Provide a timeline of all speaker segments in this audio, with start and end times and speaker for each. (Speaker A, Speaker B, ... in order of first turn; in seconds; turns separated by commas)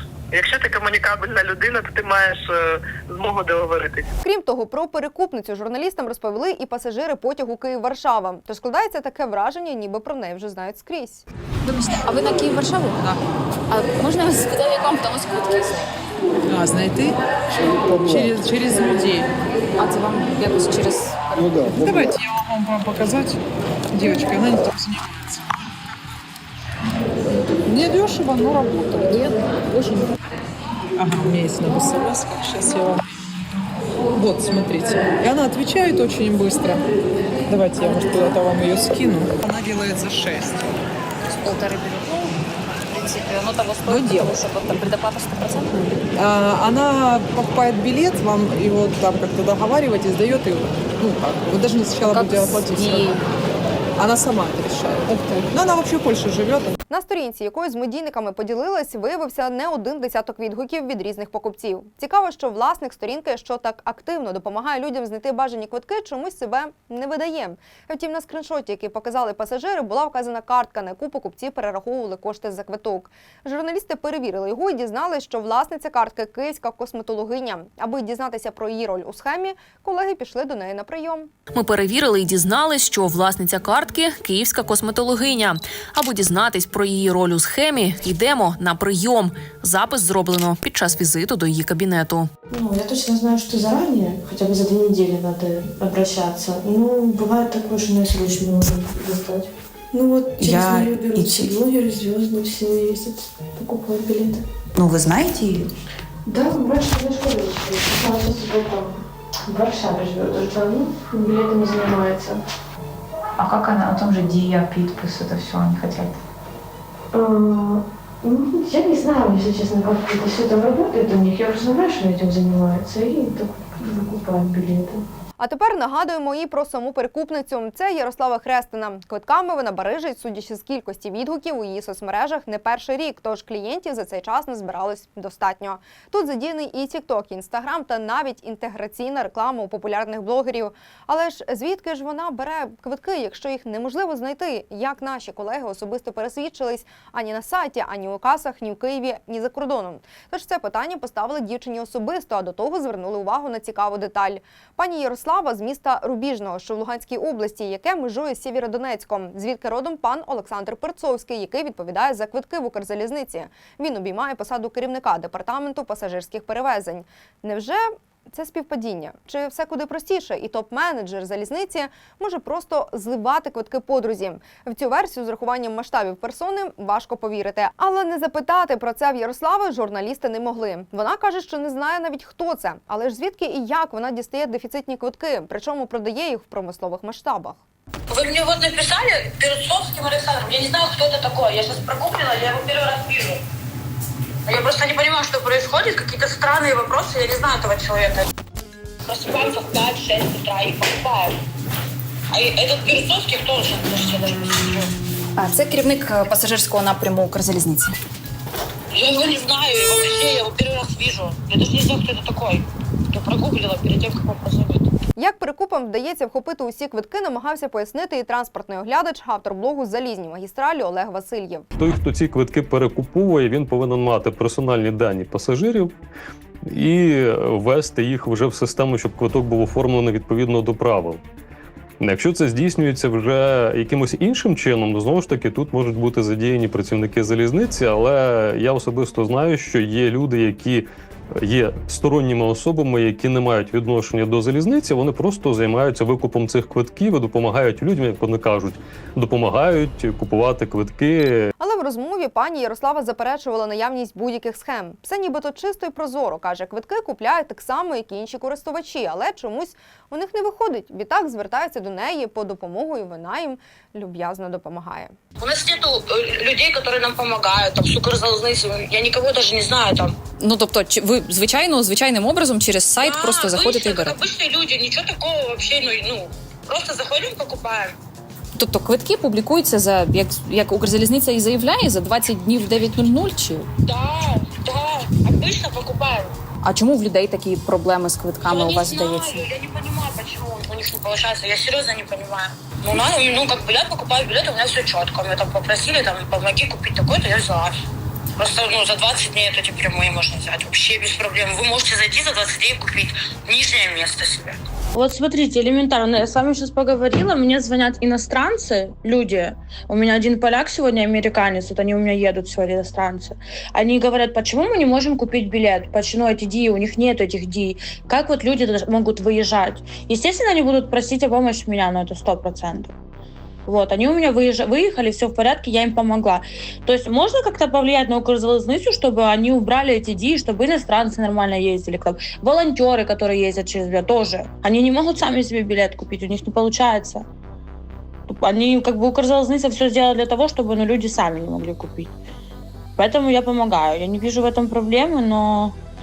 Speaker A: 0.3-2.6, Speaker A: 3.1-4.0, Speaker B: 4.2-11.2, Speaker C: 11.8-13.1, Speaker C: 13.7-15.8, Speaker D: 16.5-19.3, Speaker C: 19.8-21.4, Speaker D: 21.8-23.4, Speaker D: 23.9-25.8, Speaker D: 27.6-30.1, Speaker D: 31.0-33.1, Speaker D: 34.1-36.8, Speaker D: 37.5-40.7, Speaker C: 41.5-41.9, Speaker C: 43.0-45.7, Speaker D: 43.8-44.3, Speaker D: 46.1-53.1, Speaker C: 52.1-53.1, Speaker D: 54.0-56.8, Speaker B: 56.9-81.3, Speaker E: 81.5-92.3, Speaker F: 92.5-104.4, Speaker G: 100.3-101.6, Speaker G: 104.8-105.7, Speaker F: 106.3-112.4, Speaker G: 113.4-116.1, Speaker F: 117.1-125.0, Speaker B: 125.4-187.6, Speaker H: 188.1-193.4, Speaker H: 194.5-198.2, Speaker C: 196.8-197.3, Speaker H: 199.1-201.3, Speaker H: 202.3-204.6, Speaker C: 203.8-207.9, Speaker H: 208.9-214.8, Speaker C: 209.2-211.9, Speaker C: 213.8-214.6, Speaker B: 215.2-221.7, Speaker I: 221.8-225.9, Speaker I: 226.7-231.2, Speaker I: 232.0-240.9, Speaker I: 241.4-251.5, Speaker B: 251.6-265.1, Speaker H: 265.4-270.1, Speaker C: 270.4-274.7, Speaker H: 273.0-277.9, Speaker C: 275.6-276.0, Speaker C: 278.6-283.7, Speaker H: 283.9-286.3, Speaker C: 286.6-289.7, Speaker H: 288.5-297.7, Speaker C: 291.4-292.0, Speaker C: 292.9-293.3, Speaker C: 293.9-296.5, Speaker C: 297.1-297.5, Speaker H: 298.4-304.5, Speaker J: 304.9-322.9, Speaker J: 323.6-337.2, Speaker J: 338.3-342.1, Speaker J: 343.0-345.7